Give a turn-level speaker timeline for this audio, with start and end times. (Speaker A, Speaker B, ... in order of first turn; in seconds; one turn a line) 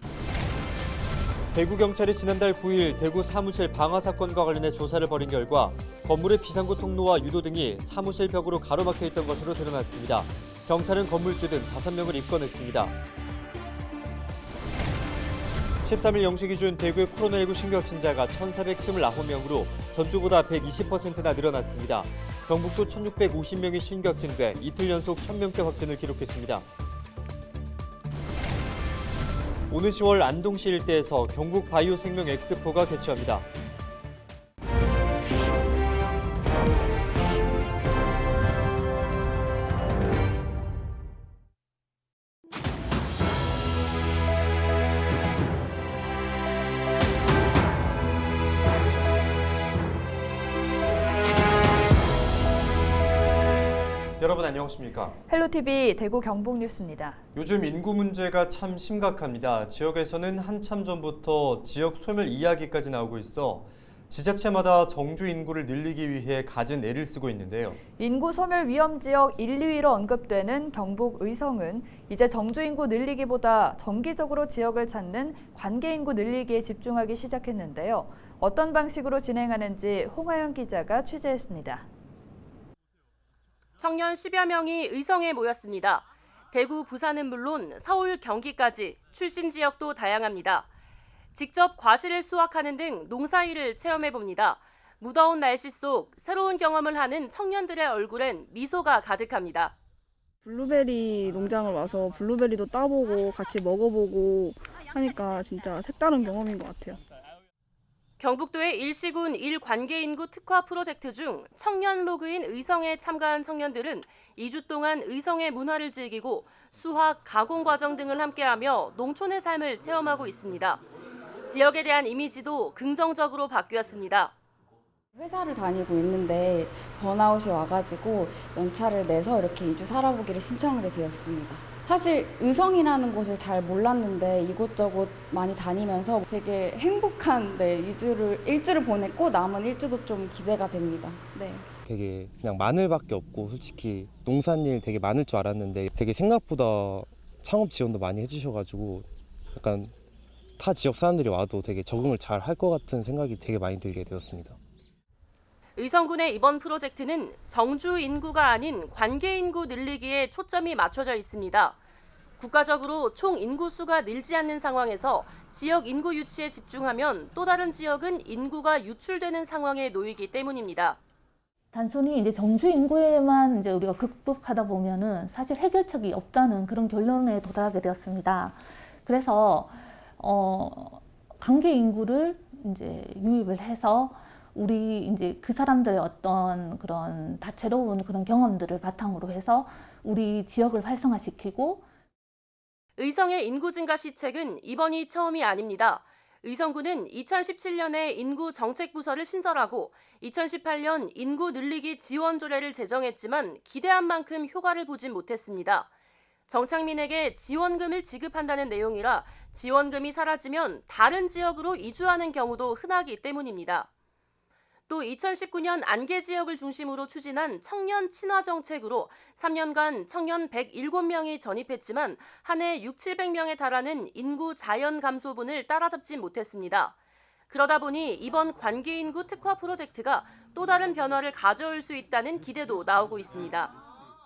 Speaker A: 1.5-12.9
Speaker A: 15.8-26.6
Speaker A: 29.7-33.5
Speaker A: 54.2-55.1
Speaker B: 55.3-57.2
Speaker A: 57.4-67.8
Speaker B: 68.0-81.8
Speaker C: 83.8-90.7
Speaker C: 91.3-99.7
Speaker D: 100.4-107.0
Speaker C: 108.2-120.8
Speaker C: 121.5-124.3
Speaker E: 125.1-141.7
Speaker F: 141.8-149.9
Speaker F: 150.6-154.6
Speaker C: 155.8-161.8
Speaker C: 162.4-171.0
Speaker G: 171.7-191.8
Speaker C: 193.0-205.9
Speaker C: 206.5-213.9
Speaker C: 214.9-226.9
Speaker C: 227.5-233.7